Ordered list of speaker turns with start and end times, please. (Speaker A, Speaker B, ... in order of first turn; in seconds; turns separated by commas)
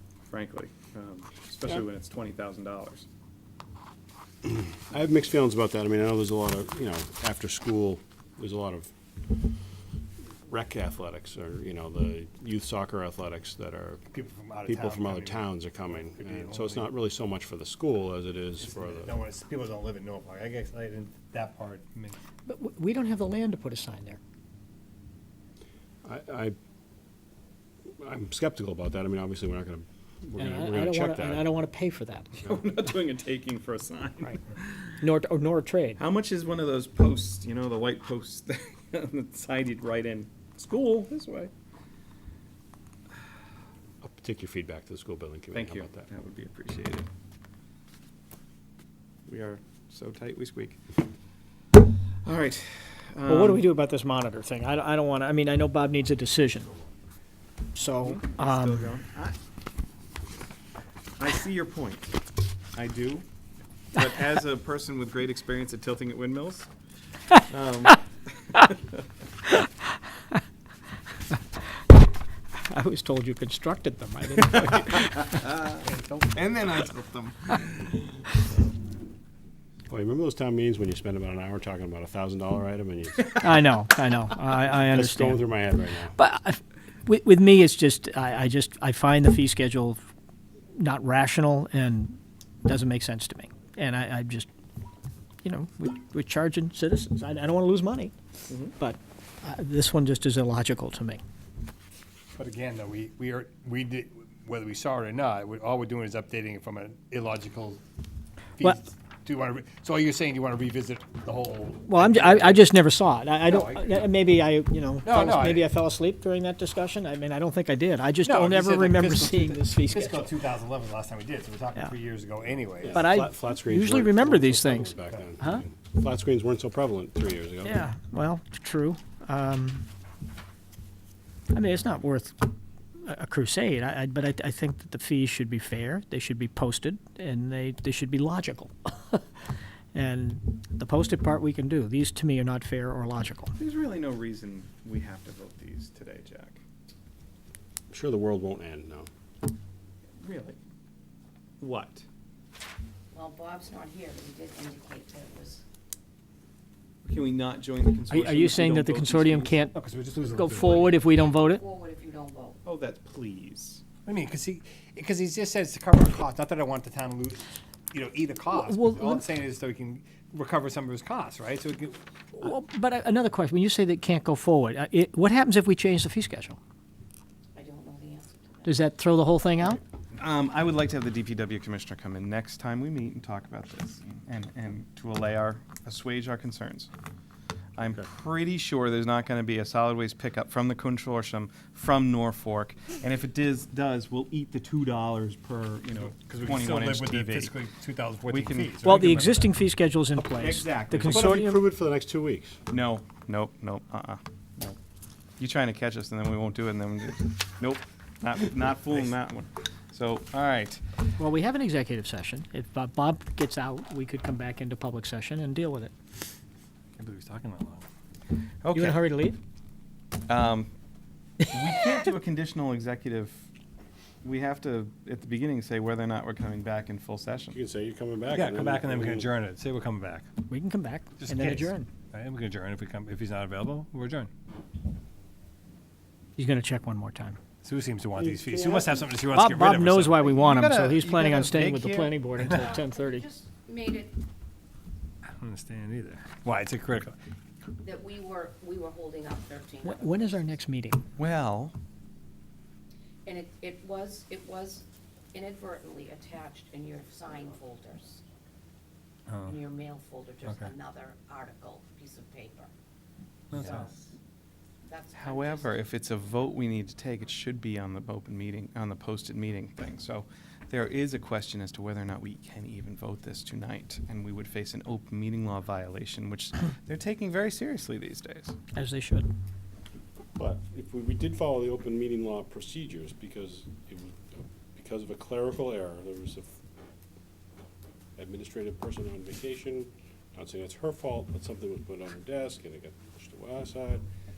Speaker A: 0.3-3.0, Speaker B: 4.4-9.5, Speaker B: 10.5-14.0, Speaker C: 14.1-16.9, Speaker B: 14.7-19.2, Speaker C: 18.6-22.1, Speaker D: 22.4-24.2, Speaker B: 26.0-26.6, Speaker B: 28.0-31.5, Speaker D: 30.4-32.3, Speaker A: 32.4-35.0, Speaker D: 35.0-36.0, Speaker A: 36.0-41.5, Speaker B: 44.0-46.1, Speaker A: 45.5-47.1, Speaker A: 49.3-50.8, Speaker A: 52.2-53.6, Speaker D: 53.2-56.8, Speaker D: 57.7-58.9, Speaker A: 58.0-59.4, Speaker A: 61.2-62.2, Speaker A: 62.7-63.2, Speaker A: 63.9-66.7, Speaker A: 67.4-68.0, Speaker D: 72.6-75.2, Speaker A: 75.2-75.8, Speaker C: 75.7-76.5, Speaker A: 76.3-78.1, Speaker B: 79.9-83.3, Speaker D: 83.4-85.5, Speaker B: 84.6-86.2, Speaker D: 86.1-90.0, Speaker D: 90.7-94.5, Speaker D: 95.4-98.1, Speaker D: 98.7-101.2, Speaker C: 102.3-107.8, Speaker C: 108.6-112.7, Speaker D: 111.8-120.3, Speaker C: 113.4-114.1, Speaker C: 115.0-115.7, Speaker C: 118.2-123.1, Speaker B: 122.8-127.9, Speaker D: 122.9-125.6, Speaker C: 125.0-125.3, Speaker D: 127.6-129.8, Speaker D: 131.5-139.2, Speaker D: 139.9-143.5, Speaker A: 143.5-146.6, Speaker B: 147.9-149.1, Speaker A: 150.2-150.6, Speaker A: 151.6-152.0, Speaker E: 153.1-155.6, Speaker A: 157.0-159.6, Speaker D: 158.1-161.6, Speaker C: 159.7-161.0, Speaker E: 160.7-162.6, Speaker A: 162.6-163.8, Speaker C: 164.0-172.0, Speaker D: 168.5-169.2, Speaker D: 172.4-176.6, Speaker E: 177.5-178.8, Speaker D: 178.6-179.8, Speaker A: 180.1-186.9, Speaker A: 187.8-197.5, Speaker B: 187.8-188.1, Speaker C: 196.0-199.6, Speaker A: 198.3-198.7, Speaker D: 198.8-201.6, Speaker A: 200.2-201.4, Speaker B: 201.0-202.6, Speaker A: 202.7-204.8, Speaker A: 205.4-210.8, Speaker D: 211.2-215.9, Speaker C: 216.9-217.9, Speaker A: 218.6-219.0, Speaker D: 218.7-219.4, Speaker A: 220.3-220.7, Speaker A: 221.4-223.4, Speaker A: 224.2-227.6, Speaker B: 227.5-229.3, Speaker C: 228.3-230.3, Speaker D: 230.5-231.9, Speaker C: 231.2-234.3, Speaker D: 236.4-237.4, Speaker C: 237.6-240.4, Speaker B: 238.2-239.0, Speaker D: 239.3-243.2, Speaker A: 240.3-242.2, Speaker C: 242.4-242.7, Speaker E: 242.5-244.2, Speaker C: 245.3-247.2, Speaker E: 247.8-250.6, Speaker D: 249.8-251.0, Speaker A: 251.2-251.7, Speaker E: 253.2-258.2, Speaker C: 259.3-259.5, Speaker E: 259.4-262.7, Speaker C: 260.4-260.7, Speaker E: 263.5-263.9, Speaker C: 263.5-263.8, Speaker A: 263.5-263.9, Speaker E: 264.9-265.8, Speaker A: 265.1-278.5, Speaker D: 278.7-279.3, Speaker B: 280.4-286.6, Speaker B: 288.1-294.0